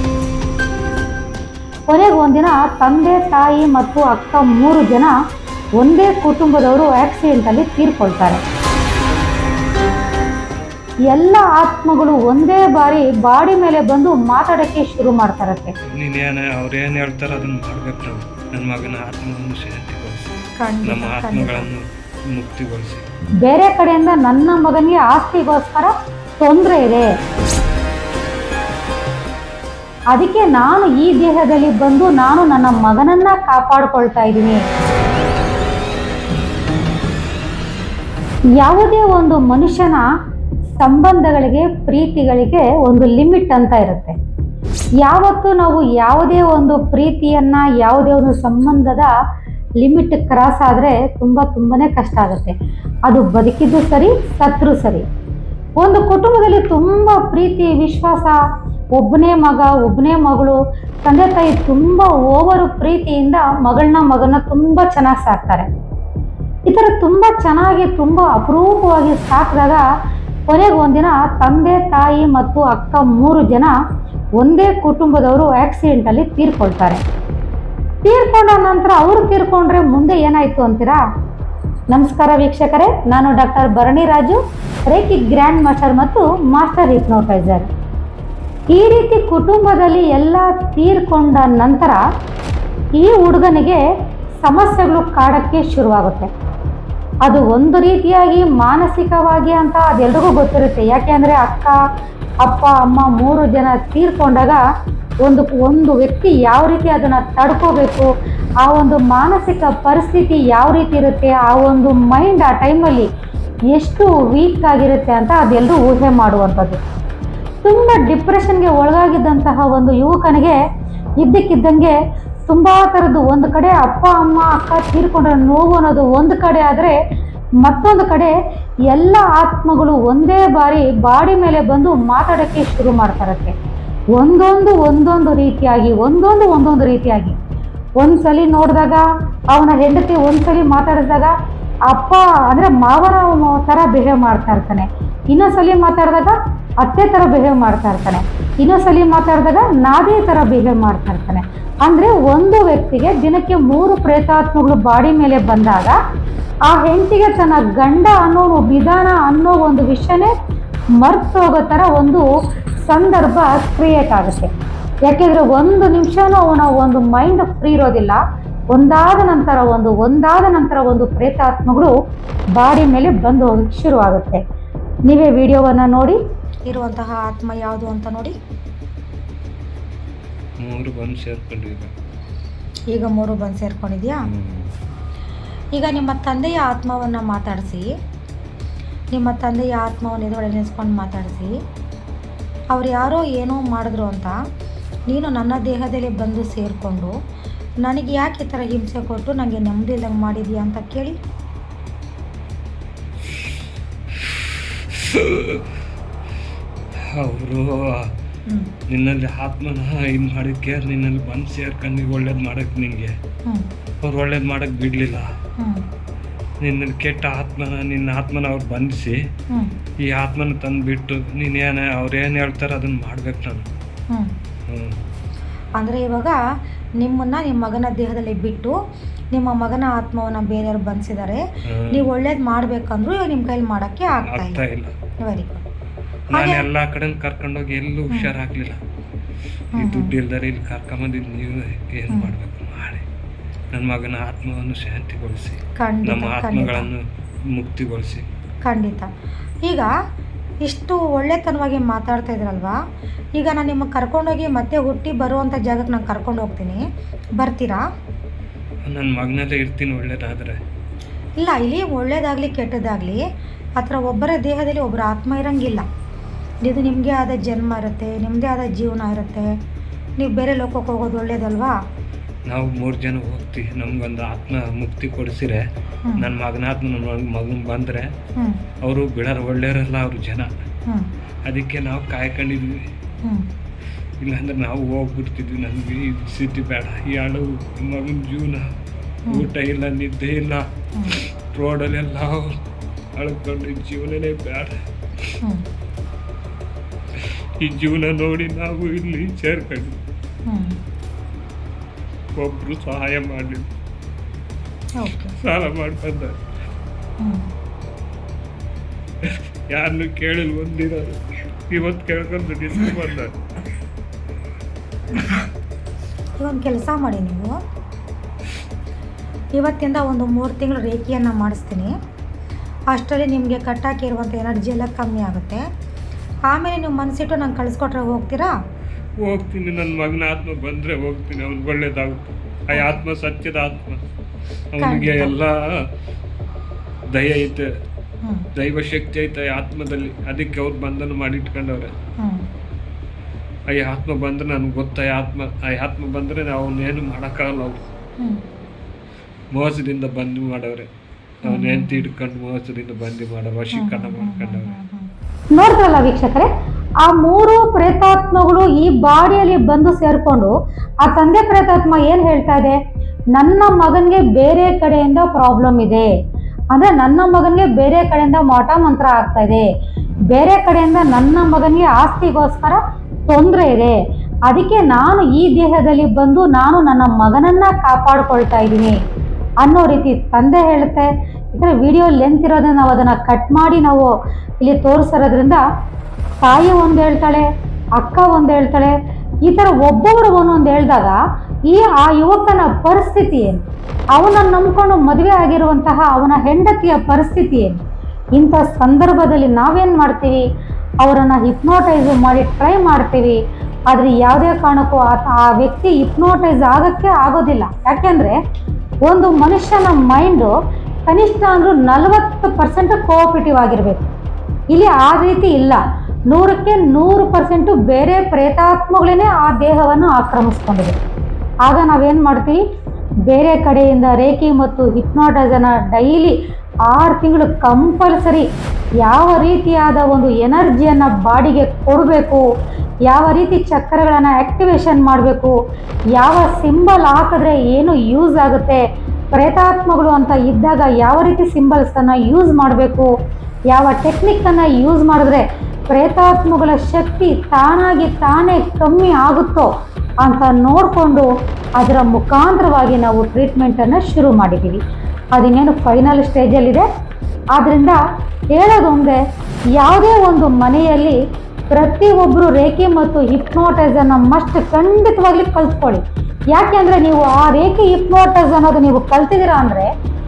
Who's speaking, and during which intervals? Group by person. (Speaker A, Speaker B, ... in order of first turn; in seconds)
Speaker A: 1.9-5.1, 5.8-8.4, 11.1-15.7, 23.4-27.1, 30.1-34.6, 38.6-40.1, 40.8-44.1, 45.0-49.1, 49.8-52.5, 53.1-55.0, 55.8-58.4, 59.0-65.7, 66.7-69.9, 70.5-73.7, 74.4-77.0, 78.0-81.0, 81.9-87.7, 88.7-92.0, 93.0-93.8, 94.4-96.3, 97.2-101.8, 102.4-104.6, 105.2-108.1, 108.6-113.1, 113.7-116.8, 117.6-120.6, 121.2-122.0, 122.5-127.0, 127.6-128.3, 128.9-133.6, 134.2-137.4, 138.0-141.3, 141.9-156.0, 156.7-160.3, 161.0-162.3, 162.8-164.5, 165.1-168.2, 168.7-171.9, 172.6-174.4, 175.1-176.2, 355.5-356.5, 357.0-360.5, 361.0-362.8, 363.4-366.1, 366.7-369.7, 370.3-374.0, 374.5-379.0, 379.6-385.6, 386.4-387.5, 388.0-397.8, 398.4-400.4, 401.0-408.4, 409.1-410.5, 411.1-414.1, 414.7-421.0, 421.6-422.6, 423.3-426.4, 426.9-428.5, 429.0-432.4, 433.1-435.6, 436.1-443.1, 443.7-454.8, 455.4-456.9, 457.5-458.0, 458.5-459.2, 459.8-461.2, 461.7-469.9
Speaker B: 16.0-20.3, 20.9-23.0, 180.6-181.9, 184.3-184.7, 204.2-205.7, 207.1-208.2, 208.9-213.2, 214.0-215.3, 216.6-219.2, 220.0-223.7, 224.7-225.0, 231.7-232.1, 234.1-234.9, 236.3-238.8, 239.8-243.0, 243.7-248.2, 258.9-260.6, 272.5-275.6, 276.2-278.1, 278.8-280.5, 281.5-282.9, 284.2-288.6, 289.3-292.6, 293.2-295.4, 297.1-300.0, 302.4-303.7, 305.4-306.4, 309.2-313.4, 329.2-334.0, 334.7-335.6, 337.1-337.7, 338.6-341.9, 343.7-347.8, 349.5-350.9, 351.4-354.7
Speaker C: 20.6-21.7, 176.7-178.3, 182.9-184.3, 185.7-187.9, 189.1-191.5, 192.7-194.4, 195.1-197.1, 197.8-201.2, 215.6-215.8, 225.8-226.4, 227.0-228.8, 229.3-234.6, 235.2-235.6, 236.3-236.6, 239.8-240.1, 245.8-246.9, 248.6-249.1, 249.6-249.9, 250.6-252.8, 253.4-256.8, 257.4-257.8, 261.4-263.2, 263.8-265.9, 266.6-269.5, 270.2-271.8, 300.5-300.8, 305.0-305.4, 307.2-307.5, 316.4-317.6, 319.5-321.9, 322.9-325.6, 326.5-328.5, 332.7-333.0, 334.8-335.3, 342.2-342.4, 351.4-352.0, 353.7-355.1